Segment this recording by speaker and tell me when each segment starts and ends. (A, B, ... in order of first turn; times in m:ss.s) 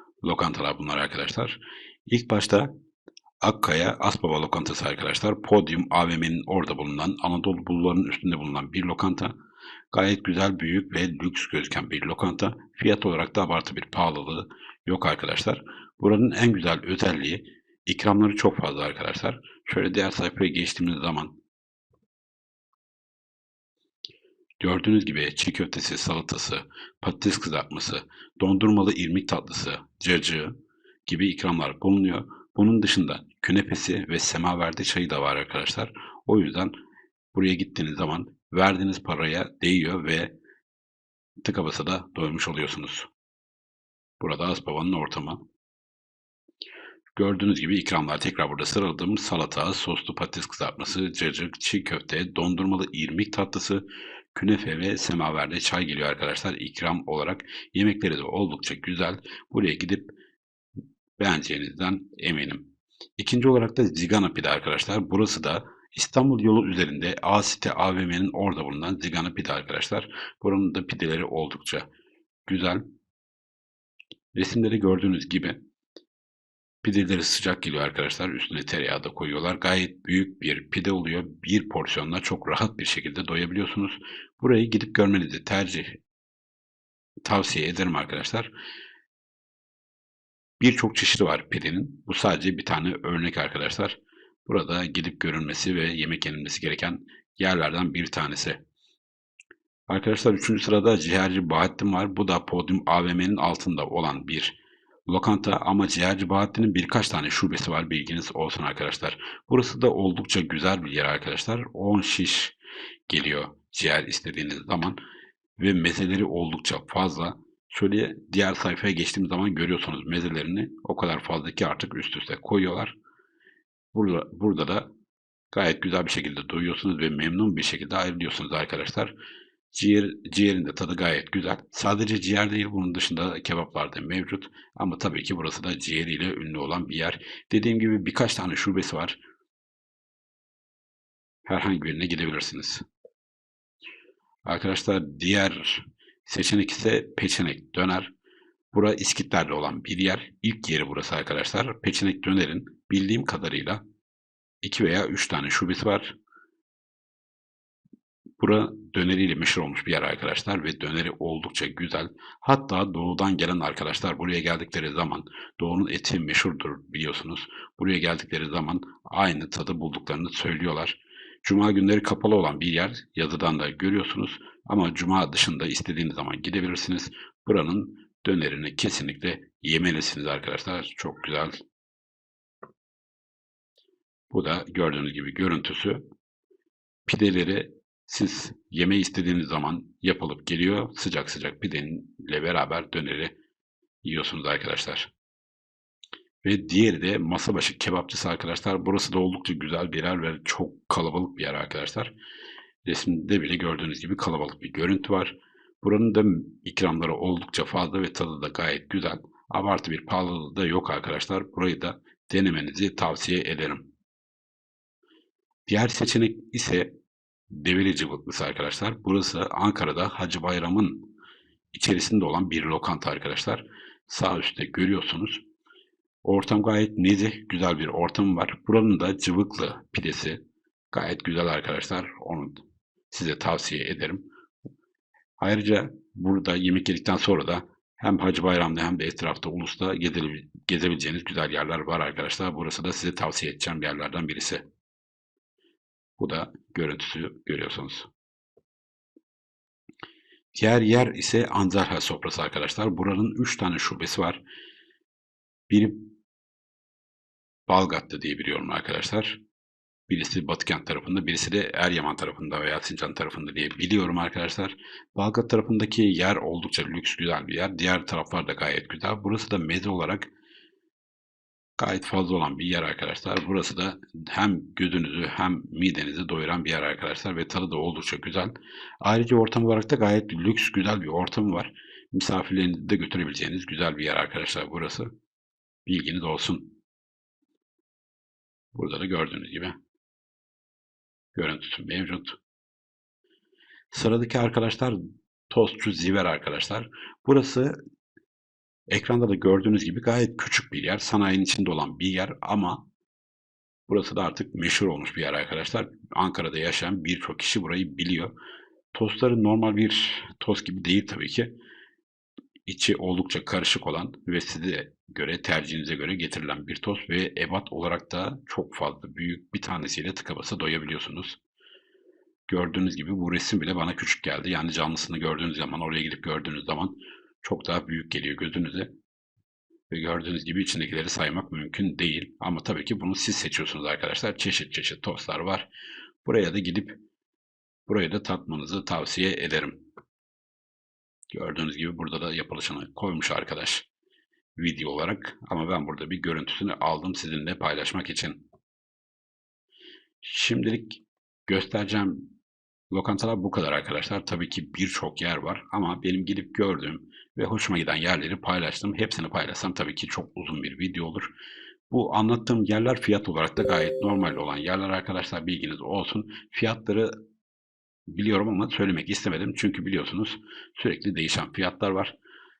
0:00.2-0:02.7 A
0:03.4-0:09.3 A
0:09.9-0:21.4 A
0:24.6-0:30.5 A
0:31.1-0:36.7 A
0:37.3-0:40.3 A
0:41.4-0:43.1 A
0:44.2-0:45.4 A
0:47.2-1:00.1 A
1:01.2-1:11.9 A
1:12.5-1:12.9 A
1:14.3-1:15.6 A
1:16.8-1:26.0 A
1:27.2-1:28.5 A
1:30.6-1:38.6 A
1:39.9-1:52.6 A
1:53.1-1:55.0 A
1:55.6-2:03.0 A
2:03.9-2:04.9 A
2:05.5-2:09.1 A
2:09.7-2:19.2 A
2:21.5-2:22.8 A
2:24.4-2:28.1 A
2:28.7-2:33.8 A
2:34.6-2:36.1 A
2:38.4-3:01.6 A
3:04.3-3:06.0 A
3:07.1-3:13.3 A
3:14.0-3:15.1 A
3:16.4-3:22.1 A
3:22.8-3:33.9 A
3:35.7-3:36.9 A
3:37.5-3:41.1 A
3:41.7-3:45.4 A
3:46.2-3:50.4 A
3:50.9-3:54.2 A
3:55.4-4:04.6 A
4:06.2-4:08.1 A
4:10.5-4:14.4 A
4:15.7-4:16.1 A
4:17.7-4:19.4 A
4:20.1-4:30.3 A
4:31.8-4:45.1 A
4:45.9-4:46.8 A
4:48.7-4:49.8 A
4:51.4-4:52.4 A
4:53.9-4:55.0 A
4:55.5-4:57.8 A
4:58.9-5:02.8 A
5:03.9-5:08.3 A
5:08.9-5:11.5 A
5:12.7-5:21.4 A
5:22.5-5:28.9 A
5:29.9-5:35.7 A
5:36.2-5:37.0 A
5:37.9-5:39.8 A
5:41.3-5:43.9 A
5:44.6-5:48.4 A
5:50.2-5:52.3 A
5:52.9-6:01.3 A
6:01.9-6:07.1 A
6:08.1-6:12.2 A